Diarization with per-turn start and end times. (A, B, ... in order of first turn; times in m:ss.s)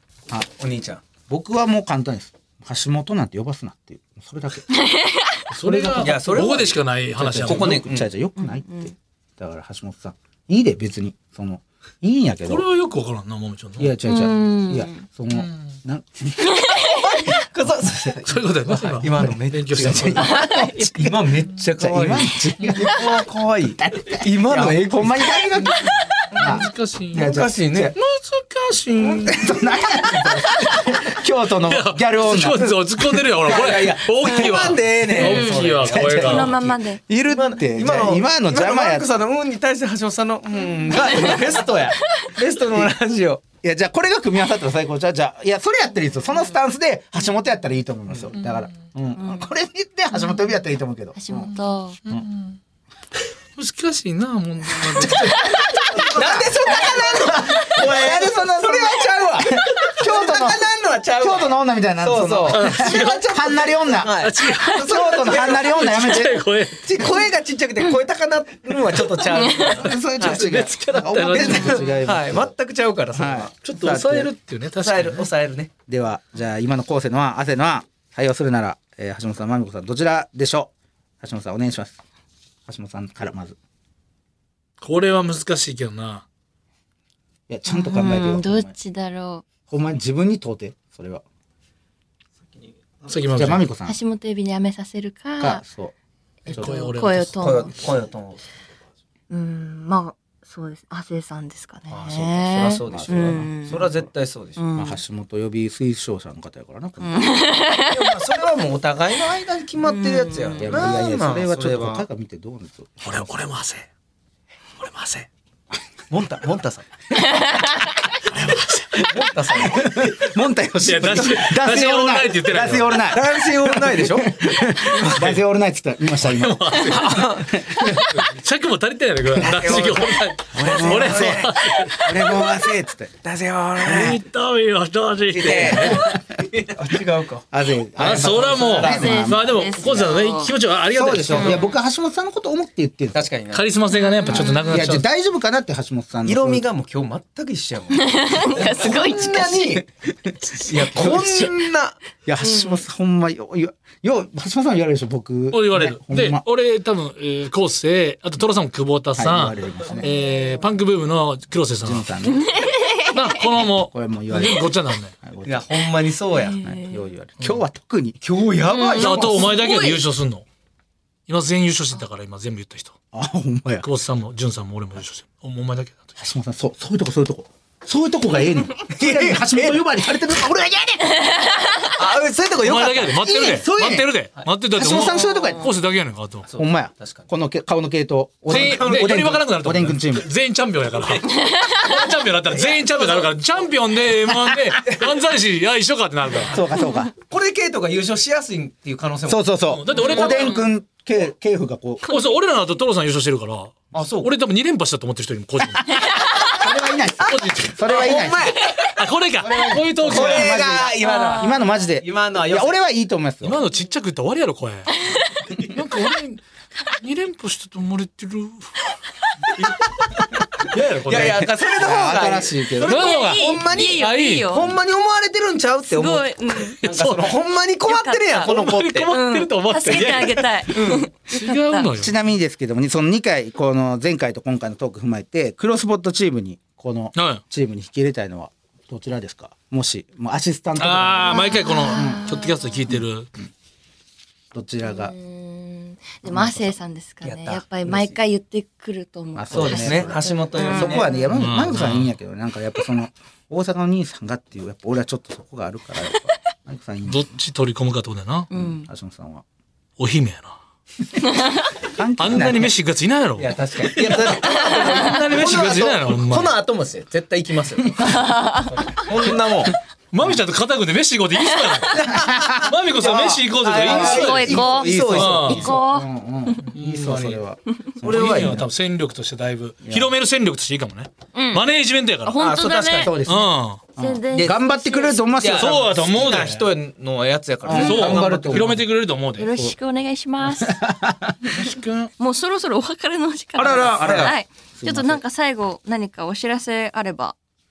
0:00.6-0:01.0 A
0:01.3-0:04.7 B
0:04.7-0:05.4 C
0:05.5-0:07.8 D
0:05.6-0:06.4 B
0:05.7-0:06.8 A
0:07.2-0:12.6 B
0:07.4-0:08.1 A
0:08.4-0:08.9 C
0:12.4-0:13.9 D
0:13.8-0:16.5 B
0:14.0-0:15.0 C
0:15.3-0:15.7 D
0:16.4-0:17.2 C
0:16.8-0:25.9 A
0:18.2-0:20.4 D
0:19.2-0:21.1 B
0:20.2-0:20.8 C
0:21.8-0:23.1 B
0:23.8-0:28.0 B
0:26.3-0:27.3 D
0:27.1-0:27.9 A
0:28.0-0:29.5 D
0:29.0-0:29.5 A
0:29.3-0:32.7 B
0:31.6-0:36.6 D
0:33.3-0:43.4 A
0:35.2-0:35.6 C
0:35.8-0:36.6 B
0:36.2-0:37.0 C
0:37.1-0:39.1 B
0:40.9-0:42.3 C
0:43.6-0:51.5 B
0:48.4-0:48.6 D
0:49.2-0:49.5 C
0:51.2-0:52.0 C
0:52.0-0:52.6 D
0:53.6-0:55.4 D
0:54.9-1:00.6 B
0:55.0-0:55.4 A
0:56.0-1:06.3 A
1:01.2-1:04.2 B
1:02.5-1:03.6 D
1:04.2-1:07.1 D
1:04.7-1:06.4 B
1:06.8-1:10.5 A
1:09.3-1:09.8 C
1:09.6-1:12.5 B
1:10.2-1:11.8 D
1:11.3-1:14.2 A
1:13.1-1:14.3 B
1:13.6-1:15.3 D
1:14.8-1:15.7 A
1:15.9-1:22.0 B
1:22.7-1:23.6 B
1:24.8-1:26.2 D
1:27.5-1:28.7 B
1:27.7-1:29.4 C
1:29.7-1:31.2 B
1:33.1-1:33.6 D
1:33.3-1:34.0 B
1:33.8-1:35.6 C
1:35.4-1:35.9 B
1:36.5-1:36.7 B
1:36.5-1:37.4 D
1:36.5-1:37.7 C
1:37.4-1:38.4 A
1:39.3-1:43.9 C
1:41.9-1:44.6 A
1:42.8-1:44.0 B
1:44.6-1:45.0 C
1:44.8-1:47.4 B
1:47.0-1:48.1 C
1:47.9-1:52.0 A
1:49.8-1:51.0 C
1:50.6-1:53.3 B
1:53.0-1:53.9 D
1:54.8-1:55.3 D
1:56.1-1:56.9 A
1:57.2-1:57.9 C
1:58.2-1:59.1 D
1:59.0-2:00.2 A
1:59.5-2:08.0 B
2:00.8-2:03.0 D
2:03.1-2:05.3 A
2:06.2-2:12.1 D
2:06.9-2:07.6 A
2:09.4-2:14.2 A
2:10.5-2:13.1 B
2:13.8-2:16.1 D
2:15.3-2:17.5 A
2:15.7-2:16.2 B
2:17.5-2:20.1 B
2:18.0-2:21.6 D
2:18.0-2:19.2 A
2:18.8-2:20.5 C
2:20.9-2:23.2 B
2:21.3-2:21.6 A
2:21.4-2:21.7 C
2:23.1-2:23.6 A
2:23.5-2:25.0 D
2:23.9-2:24.8 C
2:24.3-2:26.6 B
2:26.2-2:29.9 A
2:27.9-2:29.8 C
2:30.3-2:31.6 B
2:30.6-2:32.0 A
2:32.2-2:36.4 B
2:32.4-2:32.8 C
2:35.5-2:42.1 D
2:39.2-2:40.1 B
2:40.0-2:40.6 C
2:41.8-2:42.6 B
2:42.4-2:43.2 C
2:43.0-2:45.1 D
2:43.9-2:44.7 B
2:45.2-2:45.7 B
2:45.4-2:46.6 A
2:46.3-2:47.0 C
2:46.6-2:48.2 B
2:48.2-2:49.5 A
2:48.7-2:50.0 C
2:49.0-2:50.4 D
2:51.3-2:52.9 D
2:53.1-2:53.8 B
2:53.8-2:56.1 D
2:56.2-3:01.3 B
2:58.9-2:59.9 A
3:01.2-3:01.9 C
3:01.9-3:04.5 A
3:02.6-3:06.5 D
3:04.8-3:05.7 B
3:05.2-3:05.6 C
3:06.4-3:07.3 A
3:06.6-3:10.3 B
3:08.4-3:09.2 A
3:08.5-3:16.5 D
3:11.4-3:11.9 C
3:12.5-3:13.3 A
3:16.5-3:17.1 B
3:17.2-3:19.5 A
3:19.3-3:22.1 B
3:19.7-3:20.6 D
3:20.0-3:20.3 C
3:22.1-3:26.0 D
3:23.9-3:24.3 A
3:25.9-3:26.5 C
3:26.4-3:28.6 B
3:27.2-3:28.2 D
3:27.9-3:28.9 A
3:28.8-3:30.8 D
3:29.4-3:33.6 B
3:30.0-3:32.8 A
3:30.9-3:31.7 C
3:33.4-3:35.0 D
3:34.9-3:35.5 C
3:35.5-3:38.9 D
3:39.5-3:41.5 D
3:41.0-3:49.1 A
3:41.7-3:43.2 B
3:42.8-3:44.6 D
3:42.8-3:44.8 C
3:45.9-3:46.8 C
3:46.8-3:47.4 D
3:47.8-3:48.5 C
3:48.4-3:52.2 D
3:49.1-3:51.9 C
3:50.7-3:51.0 A
3:52.0-4:02.3 B
3:57.2-3:57.4 D
4:00.8-4:03.3 D
4:01.3-4:02.8 C
4:02.9-4:03.5 B
4:04.5-4:05.1 B
4:04.8-4:11.3 C
4:06.2-4:06.7 B
4:07.2-4:08.2 A
4:09.3-4:17.2 B
4:09.5-4:11.1 A
4:11.3-4:12.1 D
4:17.0-4:18.5 D
4:18.5-4:18.9 C
4:18.5-4:19.4 B
4:20.0-4:20.6 D
4:21.2-4:21.7 C
4:21.8-4:22.7 B
4:22.2-4:26.5 D
4:23.4-4:29.8 A
4:28.2-4:28.7 C
4:30.1-4:35.7 D
4:31.5-4:32.1 C
4:31.9-4:35.7 A
4:32.1-4:38.7 B
4:33.9-4:36.1 C
4:36.6-4:37.4 D
4:38.0-4:42.4 D
4:38.0-4:38.6 A
4:39.8-4:40.1 B
4:41.3-4:41.6 C
4:42.2-4:43.2 C
4:42.4-4:43.2 A
4:43.0-4:45.9 B
4:43.2-4:43.8 D
4:44.0-4:45.3 C
4:45.4-4:48.8 A
4:45.5-4:46.7 D
4:47.6-4:48.8 B
4:47.7-4:49.5 D
4:49.4-4:50.8 C
4:50.6-4:51.5 B
4:51.4-4:52.1 D
4:52.2-4:57.4 C
4:53.6-4:54.4 A
4:53.9-4:55.2 B